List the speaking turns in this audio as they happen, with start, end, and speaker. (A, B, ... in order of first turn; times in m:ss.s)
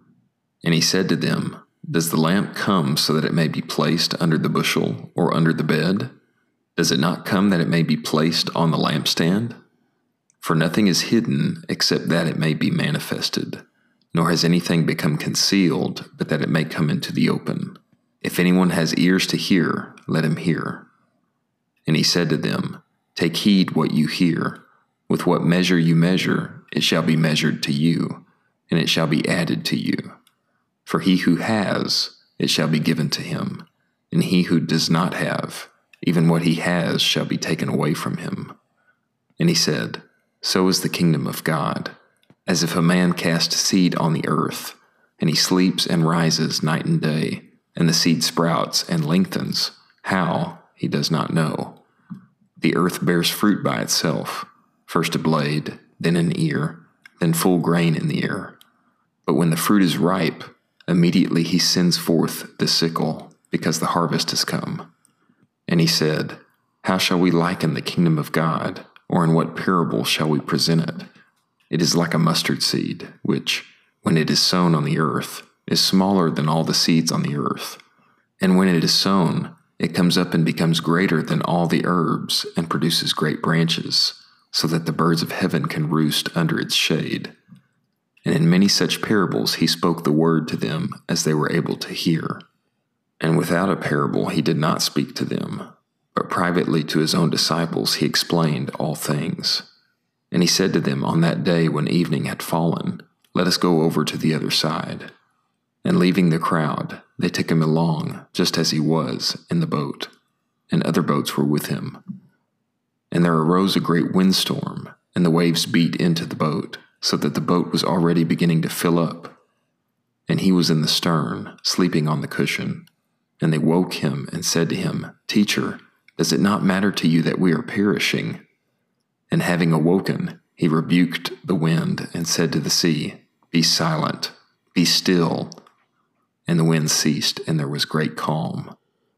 0:00.6-0:06.1 A
0:06.8-0:09.6 A
0:10.4-0:20.9 A
0:21.8-0:30.1 A
0:30.8-0:38.6 A
0:39.4-0:41.9 A
0:42.4-0:51.8 A
0:52.6-0:58.6 A
0:59.2-1:04.9 A
1:05.7-1:11.1 A
1:11.7-1:17.8 A
1:18.4-1:27.3 A
1:28.2-1:32.4 A
1:33.2-1:39.6 A
1:40.3-1:45.1 A
1:45.8-1:50.1 A
1:50.7-1:52.0 A
1:53.1-1:59.4 A
2:00.3-2:02.9 A
2:03.4-2:08.4 A
2:09.3-2:15.6 A
2:16.4-2:18.7 A